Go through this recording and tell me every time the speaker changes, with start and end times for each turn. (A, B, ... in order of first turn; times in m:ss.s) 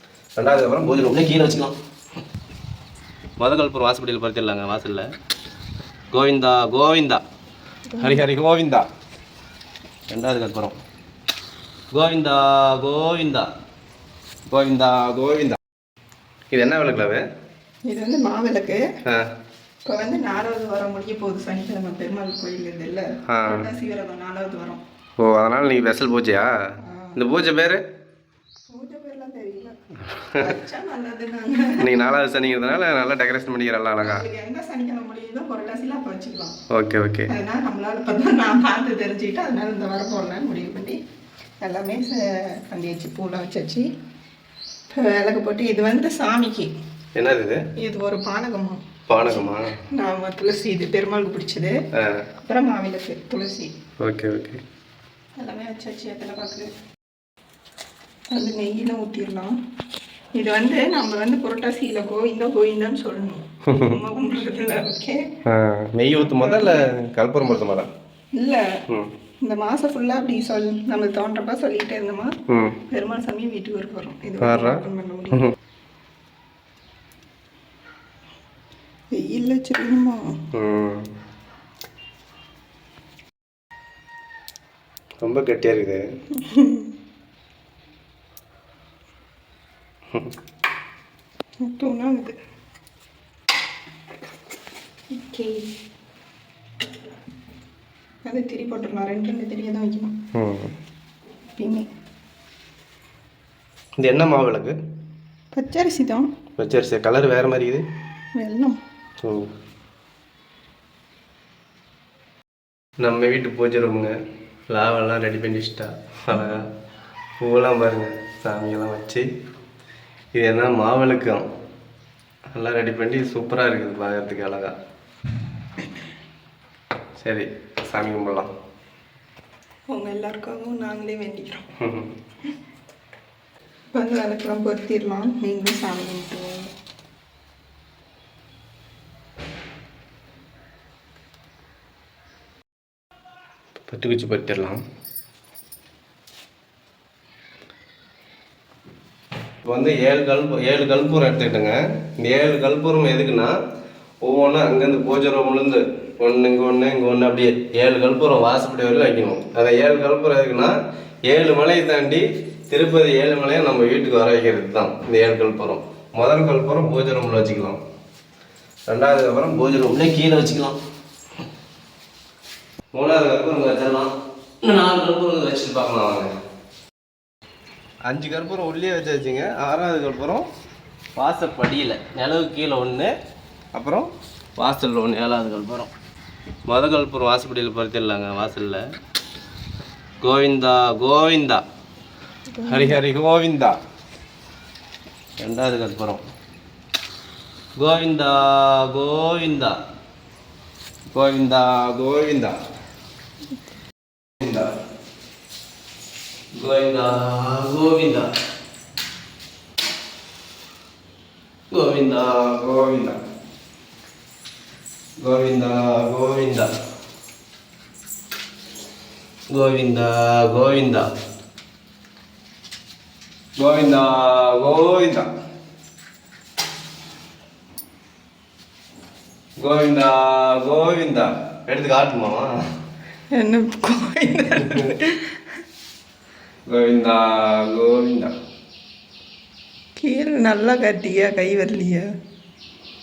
0:00.4-0:01.7 A
0:03.4-0:05.1 A
0:06.1-0:07.2 A
0:07.9-0:08.2 B
0:08.0-0:08.9 A
0:10.1-0:10.8 A
0:11.9-0:13.5 A
0:14.5-0:15.6 A
0:16.5-0:17.2 A
0:17.8-0:18.8 B
0:19.8-0:24.8 B
0:23.3-0:23.7 A
0:25.2-0:26.5 A
0:26.8-0:27.2 B
0:27.2-0:27.8 A
0:28.7-0:29.8 B
0:30.2-0:30.5 A
0:30.4-0:31.9 B
0:31.8-0:34.2 A
0:34.0-0:36.6 B
0:36.7-0:37.3 A
0:37.3-0:41.0 B
0:41.6-0:43.9 B
0:44.9-0:46.7 B
0:47.2-0:47.6 A
0:47.8-0:51.7 B
0:49.1-0:49.8 A
0:51.9-0:52.2 A
0:52.4-0:53.7 B
0:54.0-0:54.6 A
0:55.4-0:56.7 B
0:58.3-0:59.5 B
1:00.4-1:05.3 B
1:03.7-1:04.0 A
1:05.4-1:07.9 A
1:06.2-1:06.9 B
1:08.3-1:08.6 B
1:09.4-1:12.3 B
1:12.5-1:12.8 A
1:12.9-1:15.5 B
1:14.4-1:15.5 A
1:19.1-1:20.2 B
1:20.5-1:21.1 A
1:25.2-1:26.0 A
1:26.3-1:26.9 B
1:31.6-1:32.4 B
1:35.1-1:35.7 B
1:38.2-1:40.2 B
1:40.3-1:40.7 A
1:41.6-1:41.9 B
1:44.0-1:44.8 A
1:45.5-1:46.3 B
1:46.6-1:47.8 A
1:48.4-1:48.8 B
1:49.2-1:49.5 A
1:53.0-1:54.1 A
1:54.7-1:56.6 A
1:57.4-1:59.3 A
2:00.3-2:01.5 A
2:02.5-2:04.7 A
2:07.2-2:08.5 A
2:09.9-2:11.6 B
2:11.8-2:12.1 A
2:13.9-2:16.7 B
2:23.9-2:24.8 A
2:29.6-2:33.5 A
2:34.2-2:40.7 A
2:41.3-2:47.8 A
2:48.9-2:50.8 A
2:52.9-2:54.1 A
2:54.6-2:56.3 A
2:58.0-3:00.5 A
3:01.2-3:03.1 A
3:03.7-3:05.9 A
3:06.7-3:08.8 A
3:10.2-3:11.6 A
3:12.5-3:13.0 B
3:12.6-3:13.8 A
3:15.4-3:16.2 A
3:17.8-3:19.8 A
3:21.1-3:22.5 A
3:24.4-3:24.7 A
3:26.5-3:28.3 A
3:31.7-3:33.2 A
3:35.2-3:36.7 A
3:39.5-3:41.1 A
3:43.6-3:45.3 A
3:49.6-3:52.5 A
3:53.3-3:55.3 B
3:56.7-3:58.3 A
4:00.0-4:02.1 B